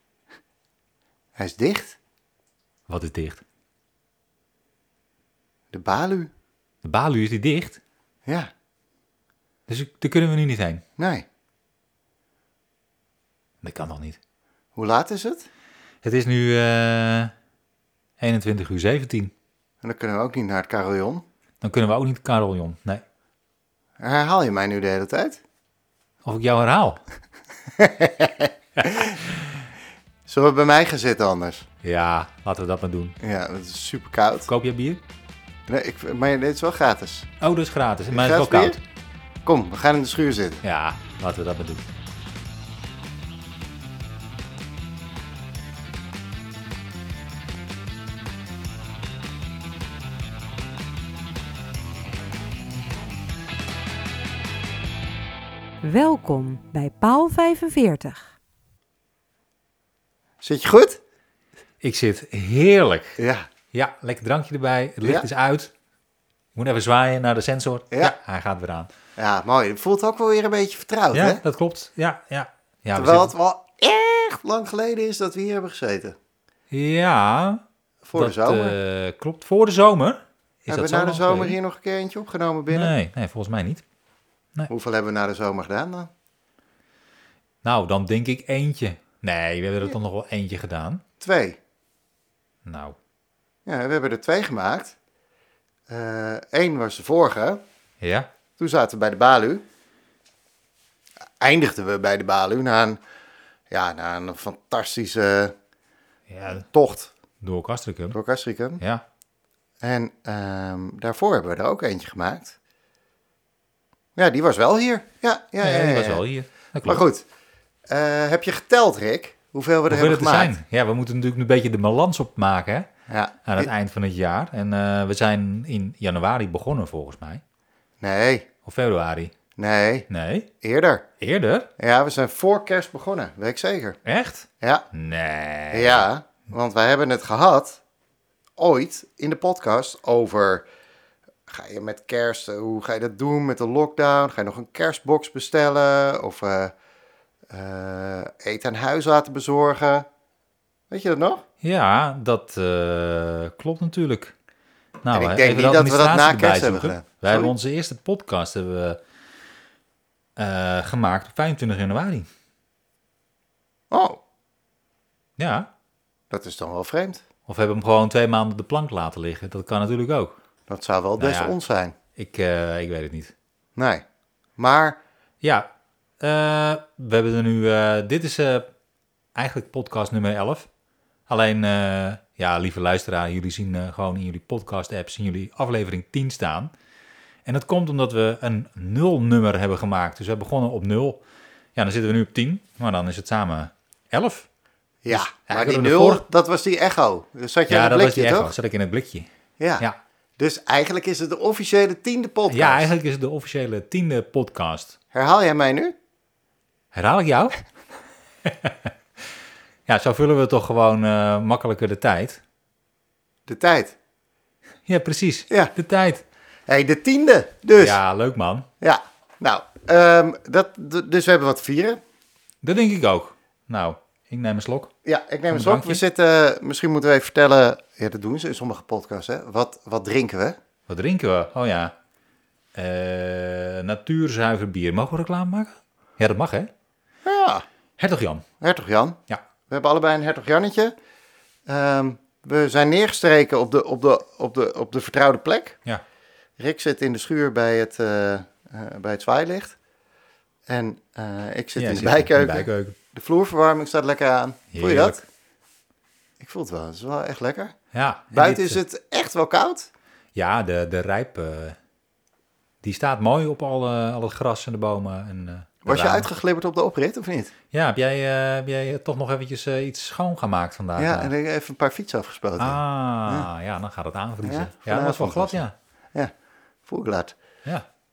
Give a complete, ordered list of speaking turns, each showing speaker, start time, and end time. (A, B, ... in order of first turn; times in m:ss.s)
0:01.4-0:02.0 A
0:02.9-0:03.4 B
0:05.7-0:06.3 A
0:06.8-0:07.8 B
0:09.7-0:10.8 B
0:11.0-0:11.2 A
0:13.6-0:14.2 B
0:14.8-0:15.5 A
0:16.0-0:17.3 B
0:18.2-0:19.3 B
0:19.8-0:21.2 A
0:21.6-0:23.0 B
0:24.0-0:25.4 A
0:26.2-0:27.0 B
0:27.8-0:29.2 A
0:30.3-0:31.7 A
0:31.8-0:33.1 B
0:33.2-0:34.5 A
0:34.5-0:35.0 B
0:35.7-0:37.3 A
0:37.4-0:38.8 B
0:38.1-0:38.8 A
0:39.4-0:40.6 A
0:40.6-0:41.8 B
0:55.8-0:58.3 C
1:00.4-1:01.0 A
1:01.8-1:03.2 B
1:03.2-1:03.5 A
1:03.7-1:05.7 B
1:05.0-1:05.3 A
1:06.5-1:08.9 B
1:09.2-1:11.4 A
1:11.1-1:13.3 B
1:12.9-1:16.2 A
1:16.7-1:17.6 B
1:18.0-1:18.7 A
1:18.1-1:21.6 B
1:20.7-1:22.9 A
1:22.7-1:23.8 B
1:24.7-1:26.1 A
1:27.6-1:31.0 B
1:31.2-1:31.6 A
1:32.6-1:33.0 B
1:33.6-1:35.0 A
1:35.9-1:37.6 A
1:38.0-1:38.3 B
1:38.6-1:39.6 A
1:41.4-1:43.0 A
1:43.7-1:45.5 A
1:46.3-1:46.6 B
1:46.6-1:47.1 A
1:47.4-1:48.2 B
1:48.1-1:48.8 A
1:49.8-1:52.6 A
1:54.2-1:56.2 A
1:55.6-1:57.0 B
1:56.8-1:57.2 A
1:57.9-2:00.5 A
1:59.9-2:02.9 B
2:03.1-2:03.7 A
2:03.4-2:07.4 B
2:08.0-2:08.5 A
2:08.6-2:09.3 B
2:09.6-2:10.1 A
2:10.1-2:10.5 B
2:10.6-2:11.0 A
2:11.2-2:11.7 B
2:11.8-2:14.0 A
2:14.0-2:16.1 B
2:14.6-2:14.9 A
2:15.7-2:17.8 A
2:18.6-2:20.6 A
2:21.5-2:26.7 A
2:27.5-2:30.0 A
2:30.9-2:31.4 A
2:31.6-2:34.3 B
2:35.0-2:39.0 B
2:35.1-2:37.5 A
2:40.4-2:42.3 B
2:43.9-2:44.2 A
2:45.4-2:45.7 B
2:46.3-2:47.2 A
2:47.5-2:50.4 B
2:50.7-2:51.9 A
2:51.2-2:51.6 B
2:52.2-2:53.3 B
2:53.8-2:54.0 A
2:54.6-2:55.0 A
2:55.4-2:55.7 B
2:56.2-2:58.7 B
2:59.3-3:00.7 B
3:01.3-3:06.7 B
3:07.4-3:11.2 B
3:11.8-3:14.5 B
3:15.0-3:18.5 A
3:15.1-3:16.2 B
3:17.7-3:19.3 B
3:19.6-3:19.8 A
3:20.4-3:22.9 A
3:22.5-3:25.0 B
3:25.1-3:25.9 A
3:26.9-3:27.6 B
3:28.4-3:28.9 B
3:29.9-3:32.4 B
3:33.5-3:33.9 A
3:34.8-3:36.2 B
3:35.5-3:35.7 A
3:36.7-3:38.0 A
3:37.8-3:38.7 B
3:38.8-3:42.0 A
3:42.6-3:44.9 B
3:45.0-3:50.6 A
3:45.5-3:46.0 B
3:50.9-3:51.9 B
3:52.7-3:56.7 B
3:57.2-3:57.6 A
3:58.0-3:58.4 B
3:58.6-4:00.9 A
4:01.7-4:05.8 A
4:06.6-4:09.8 A
4:10.7-4:15.2 A
4:11.8-4:13.0 B
4:14.7-4:15.2 B
4:16.4-4:17.7 A
4:17.9-4:18.8 B
4:18.3-4:19.9 A
4:20.3-4:21.8 B
4:22.8-4:26.3 B
4:25.8-4:27.5 A
4:27.7-4:31.3 B
4:31.0-4:33.5 A
4:32.6-4:35.7 B
4:34.4-4:35.6 A
4:36.9-4:37.3 A